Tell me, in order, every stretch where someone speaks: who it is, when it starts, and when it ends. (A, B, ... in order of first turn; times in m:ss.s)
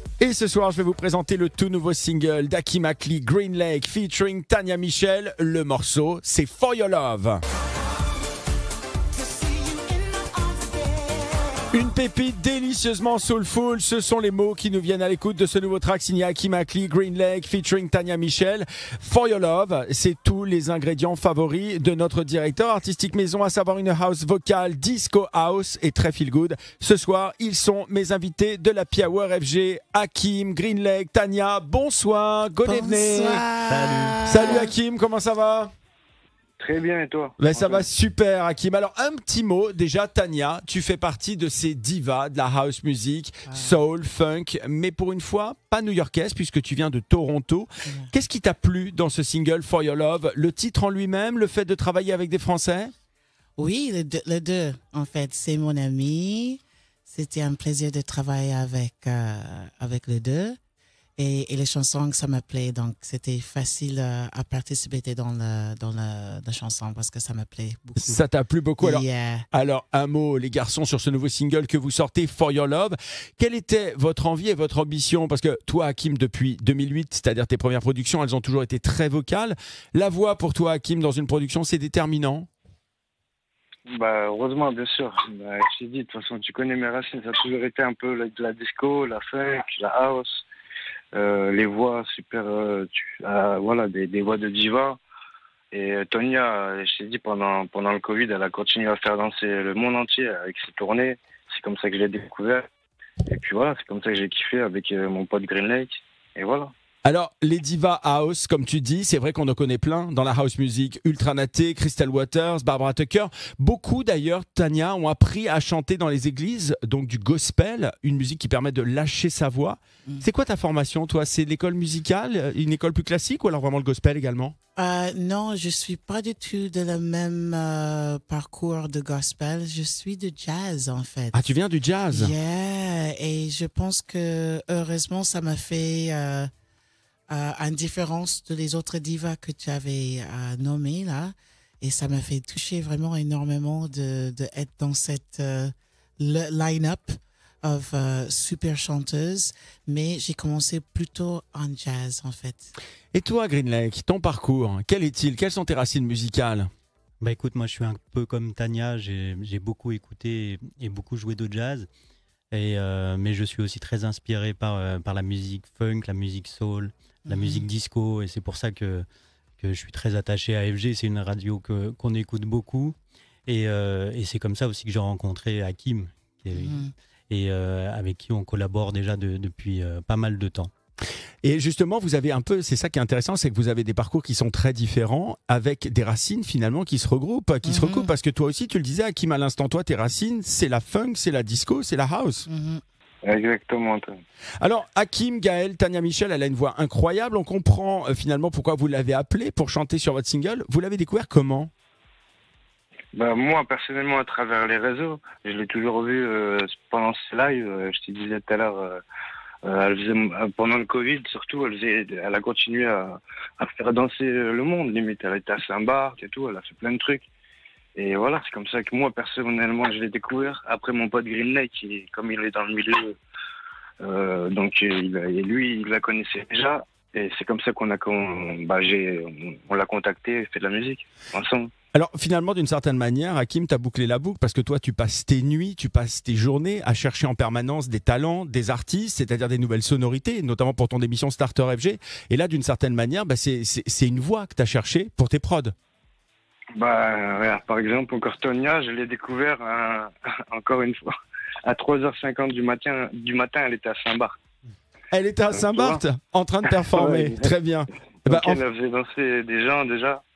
0:00.2-0:07.4 A
0:09.1-0:11.8 B
0:11.7-0:33.4 A
0:32.6-0:34.7 B
0:33.7-0:34.3 C
0:34.2-0:35.7 A
0:36.6-0:37.9 D
0:37.4-0:52.9 A
0:43.5-0:43.8 B
0:53.6-1:00.6 B
1:01.2-1:08.2 B
1:08.0-1:22.5 A
1:08.8-1:09.5 B
1:23.9-1:30.4 D
1:31.1-1:35.0 D
1:35.7-1:42.6 D
1:43.3-1:46.7 D
1:47.0-2:04.6 A
2:04.8-2:11.5 B
2:11.3-2:12.3 A
2:12.1-2:16.5 B
2:17.3-2:32.7 B
2:33.1-2:36.7 A
2:37.2-2:41.9 C
2:42.5-2:49.1 C
2:47.2-2:47.7 B
2:49.6-2:53.0 C
2:53.5-3:00.7 C
2:56.5-2:56.9 B
3:01.4-3:12.5 A
3:07.6-3:08.2 B
3:12.5-3:12.8 B
3:13.2-3:14.1 D
3:14.6-3:21.7 A
3:23.1-3:29.0 D
3:29.7-3:37.3 D
3:38.0-3:43.2 D
3:44.0-3:51.7 D
3:51.9-4:05.7 A
4:06.8-4:11.1 D
4:11.6-4:14.4 D
4:15.1-4:18.6 A
4:15.5-4:16.0 D
4:16.8-4:17.5 D
4:18.3-4:20.2 D